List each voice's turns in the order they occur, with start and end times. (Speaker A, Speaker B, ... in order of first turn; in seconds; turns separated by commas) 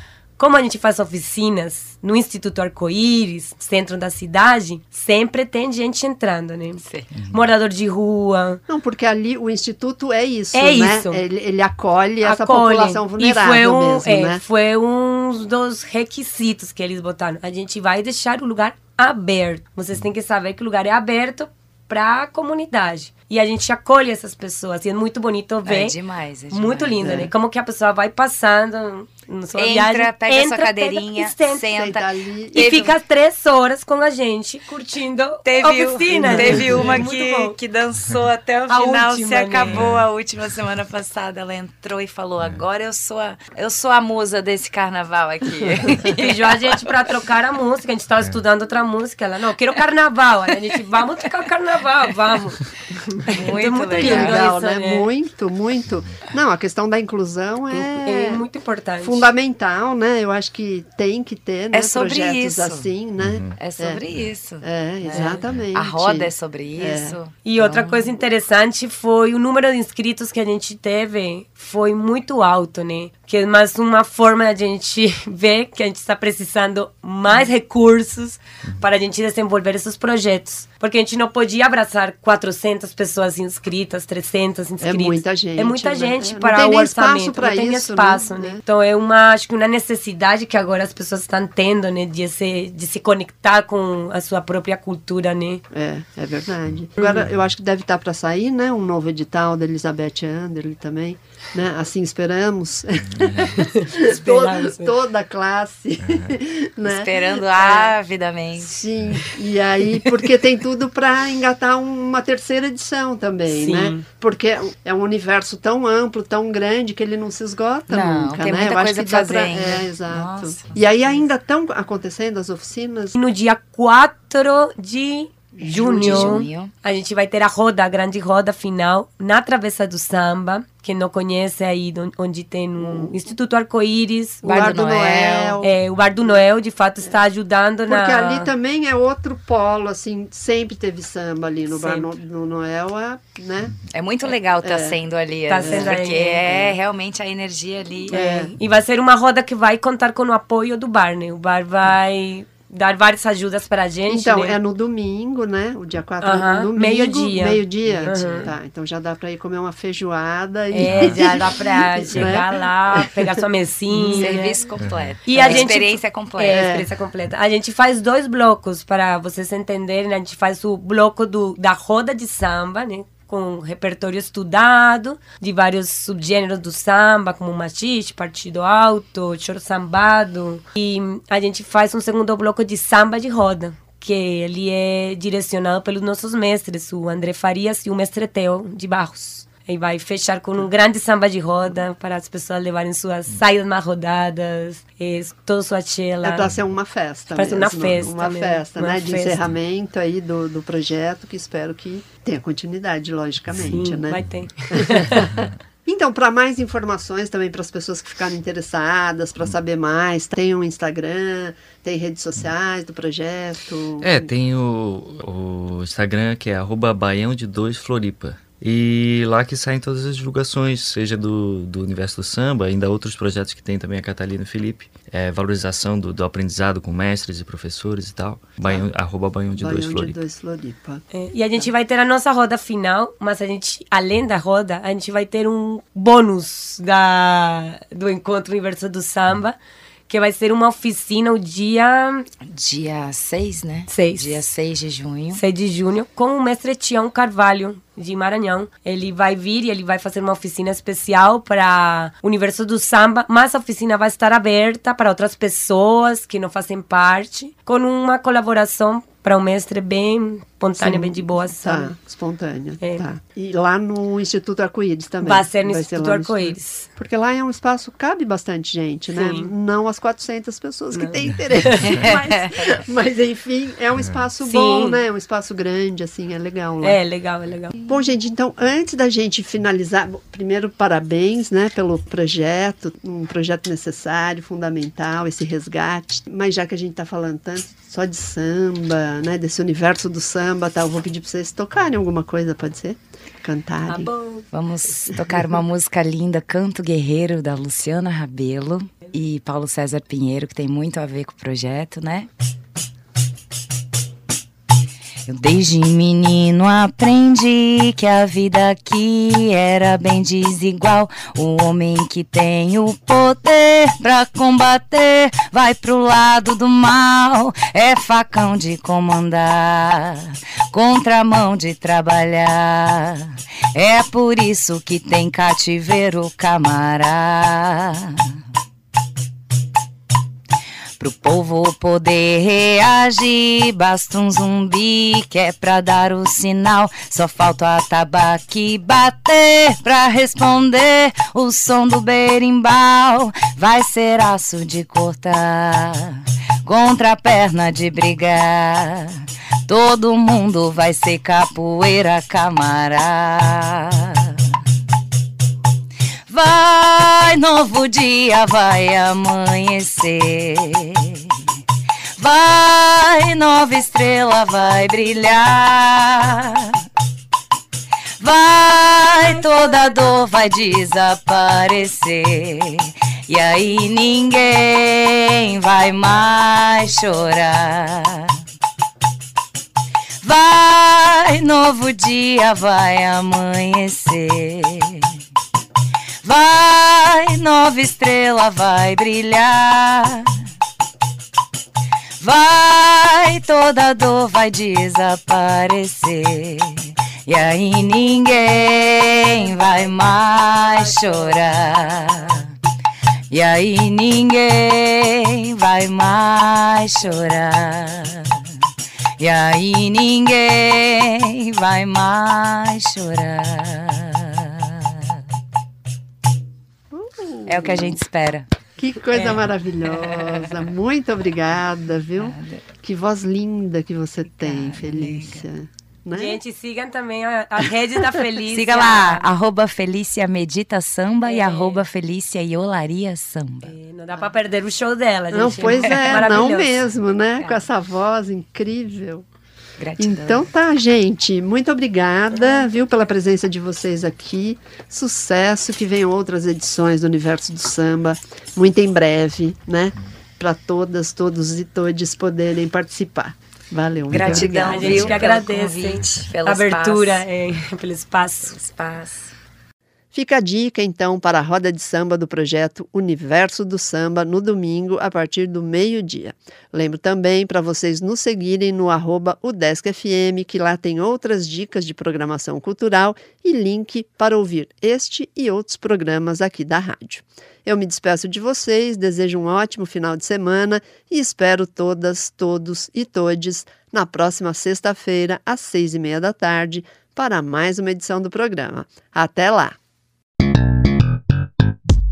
Speaker A: 0.4-8.6, Speaker B: 6.8-7.1, Speaker C: 7.1-7.5, Speaker D: 8.7-14.4, Speaker A: 10.5-11.2, Speaker A: 12.2-26.0, Speaker B: 25.6-27.3, Speaker A: 26.5-31.6, Speaker D: 27.0-27.3, Speaker B: 29.5-32.9, Speaker D: 31.7-32.9, Speaker A: 32.5-37.5, Speaker B: 35.4-46.8, Speaker D: 36.1-37.0, Speaker A: 38.7-39.9, Speaker C: 39.6-40.0, Speaker A: 46.1-52.6, Speaker B: 53.3-54.5, Speaker A: 53.3-55.1, Speaker D: 54.0-58.4, Speaker A: 57.7-59.3, Speaker D: 59.0-64.0, Speaker B: 61.7-62.9, Speaker C: 63.2-63.5, Speaker B: 63.5-68.1, Speaker D: 64.6-67.2, Speaker A: 65.1-65.4, Speaker A: 67.4-95.6, Speaker D: 84.8-88.6, Speaker D: 95.7-107.9, Speaker A: 97.0-97.2, Speaker C: 103.1-103.6, Speaker A: 103.8-104.9, Speaker C: 106.0-106.3, Speaker B: 106.8-108.8, Speaker D: 108.6-123.2, Speaker A: 113.5-114.0, Speaker B: 117.9-121.2, Speaker A: 123.1-138.5, Speaker D: 125.6-126.5, Speaker B: 125.7-126.7, Speaker D: 132.8-133.2, Speaker B: 134.4-135.6, Speaker D: 134.4-135.7, Speaker D: 137.9-143.8, Speaker A: 141.7-142.1, Speaker B: 143.9-148.5, Speaker D: 144.6-145.0, Speaker A: 145.5-146.4, Speaker D: 145.6-146.7, Speaker A: 148.1-154.6, Speaker D: 148.1-148.5, Speaker D: 154.1-163.3, Speaker A: 156.2-158.5, Speaker B: 157.8-158.5, Speaker A: 160.7-164.6, Speaker C: 160.8-161.2, Speaker B: 161.0-162.4, Speaker D: 163.9-164.4, Speaker B: 164.0-166.8, Speaker C: 164.8-165.1, Speaker A: 165.3-196.4, Speaker D: 165.3-165.8, Speaker D: 166.5-166.9, Speaker D: 196.2-204.2, Speaker A: 197.3-199.4, Speaker A: 203.7-205.2, Speaker D: 204.7-214.3, Speaker C: 214.0-230.2, Speaker D: 229.6-231.0, Speaker A: 231.1-239.6, Speaker A: 240.1-242.2, Speaker B: 242.4-245.4, Speaker A: 243.9-244.4, Speaker A: 245.3-261.9, Speaker D: 260.8-277.0, Speaker A: 265.2-266.9, Speaker A: 269.1-269.5, Speaker A: 270.9-272.0, Speaker B: 272.1-272.4, Speaker A: 274.4-275.0, Speaker A: 276.8-277.7, Speaker D: 277.9-294.1, Speaker A: 293.9-294.4, Speaker B: 294.5-302.3, Speaker B: 305.2-328.1, Speaker B: 331.0-349.1, Speaker B: 349.6-354.3, Speaker B: 356.3-361.3, Speaker B: 362.2-366.7, Speaker B: 368.2-378.3, Speaker B: 380.2-385.0, Speaker B: 386.2-390.3, Speaker B: 392.2-402.5, Speaker A: 400.5-402.0, Speaker B: 403.3-408.3, Speaker B: 409.2-414.7, Speaker D: 416.9-418.0, Speaker B: 417.4-418.5, Speaker D: 418.8-426.4, Speaker A: 419.1-419.4, Speaker B: 419.9-420.6, Speaker B: 422.2-422.6, Speaker B: 424.4-425.4, Speaker A: 426.1-429.3, Speaker B: 428.5-433.7, Speaker A: 431.2-431.8, Speaker A: 433.6-436.8, Speaker D: 435.3-439.2, Speaker B: 435.9-436.5, Speaker B: 437.4-437.7, Speaker B: 439.8-440.5, Speaker D: 440.0-455.2, Speaker B: 454.1-457.2, Speaker A: 454.7-458.5, Speaker B: 458.4-459.3, Speaker D: 460.1-489.8